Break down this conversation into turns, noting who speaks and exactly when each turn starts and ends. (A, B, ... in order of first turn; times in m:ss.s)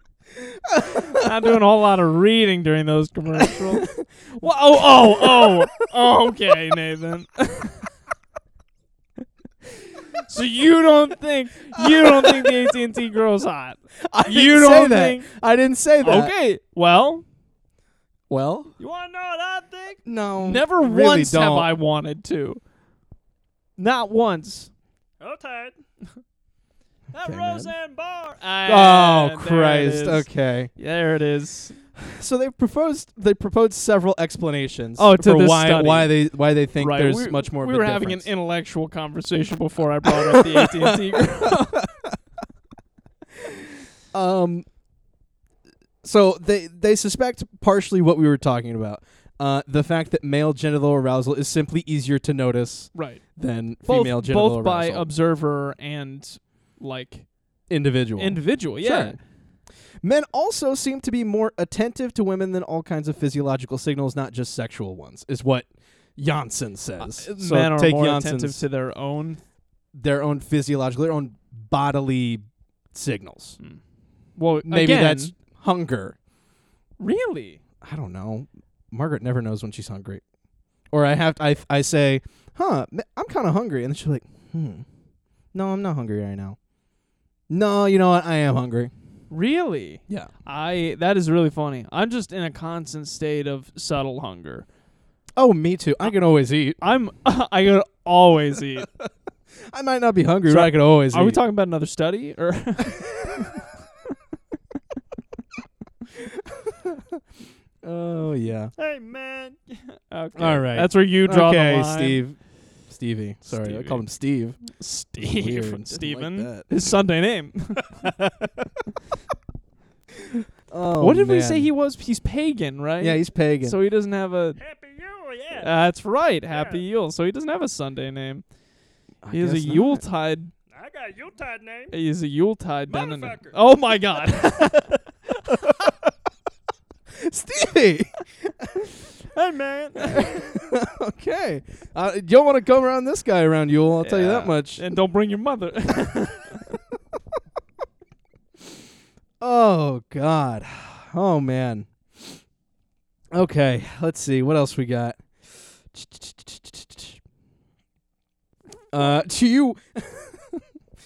0:00.3-0:01.6 A
0:00.9-0:07.9 B
0:03.4-0:04.0 A
0:04.7-0:05.7 A
0:10.2-0:15.3 B
0:11.8-0:12.7 A
0:14.0-0:16.3 A
0:16.0-0:17.2 B
0:18.3-0:18.7 A
0:18.8-0:20.0 C
0:20.1-0:21.7 A
0:20.4-0:22.6 B
0:23.8-0:24.7 B
0:25.2-0:25.8 C
0:27.1-0:28.5 C
0:27.2-0:27.7 A
0:28.4-0:31.8 B
0:28.6-0:30.7 A
0:32.0-0:38.3 A
0:35.0-0:36.1 B
0:36.8-0:41.8 B
0:40.0-0:42.2 A
0:43.4-0:44.6 A
0:46.0-0:55.1 A
0:52.9-0:53.2 B
0:53.9-0:57.2 B
0:57.7-0:59.2 A
0:58.2-0:59.2 B
1:00.0-1:08.6 A
1:07.0-1:09.4 B
1:09.9-1:13.6 A
1:14.4-1:15.3 B
1:14.6-1:16.2 A
1:17.0-1:17.6 B
1:17.8-1:20.2 A
1:20.9-1:24.8 A
1:25.5-1:26.6 A
1:27.5-1:28.9 A
1:29.3-1:34.7 B
1:35.4-1:36.8 A
1:36.8-1:38.9 B
1:39.6-1:41.4 A
1:40.4-1:43.6 B
1:42.9-1:43.3 A
1:46.2-1:47.0 A
1:47.8-1:48.7 A
1:48.8-1:49.6 C
1:50.1-1:52.2 B
1:50.4-1:52.4 A
1:52.9-1:56.7 A
1:53.5-1:54.0 B
1:54.8-1:57.9 B
1:58.0-1:58.6 A
2:00.7-2:01.7 A
2:01.0-2:04.6 B
2:03.0-2:03.8 A
2:04.6-2:05.7 C
2:05.6-2:08.4 B
2:06.5-2:06.8 C
2:09.2-2:10.0 A
2:09.3-2:10.5 B
2:10.7-2:11.9 C
2:11.9-2:14.9 B
2:12.9-2:13.6 C
2:15.5-2:15.9 A
2:17.1-2:18.8 A
2:19.3-2:20.4 C
2:20.1-2:24.8 A
2:24.0-2:26.8 B
2:29.4-2:32.4 A
2:33.3-2:37.2 A
2:38.9-2:40.6 A